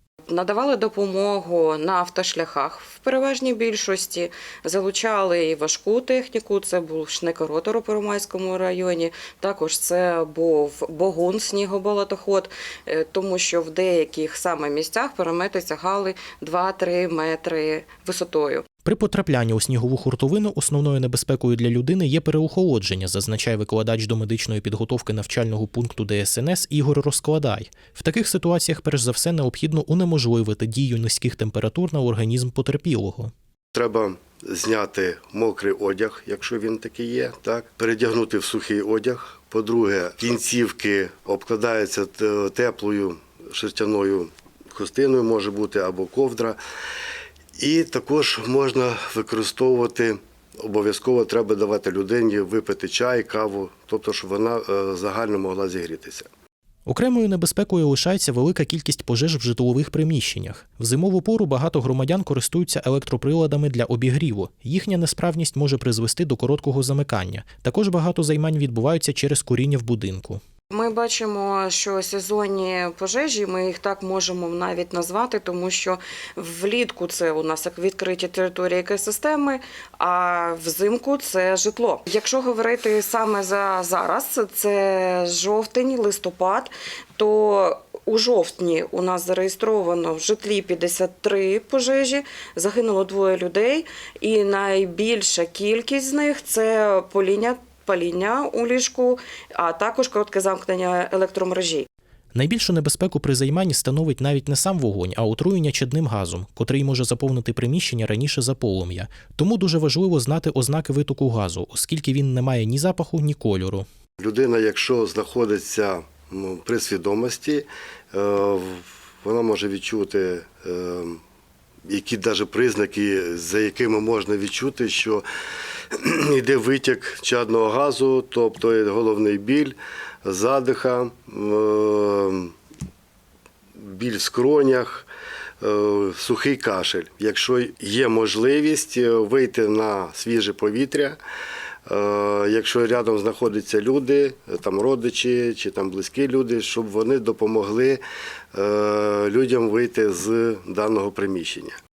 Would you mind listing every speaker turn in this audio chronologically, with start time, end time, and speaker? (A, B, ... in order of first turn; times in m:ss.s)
0:00.3-0:18.6 A
0:18.8-0:33.3 B
0:33.7-0:46.6 C
0:47.6-0:56.3 C
0:56.9-1:10.4 B
1:10.7-1:41.9 A
1:42.3-1:53.9 B
1:54.2-2:01.2 C
2:01.9-2:05.2 C
2:05.9-2:12.5 C
2:13.8-2:15.1 C
2:15.6-2:21.2 C
2:21.9-2:28.0 C
2:28.5-2:31.8 C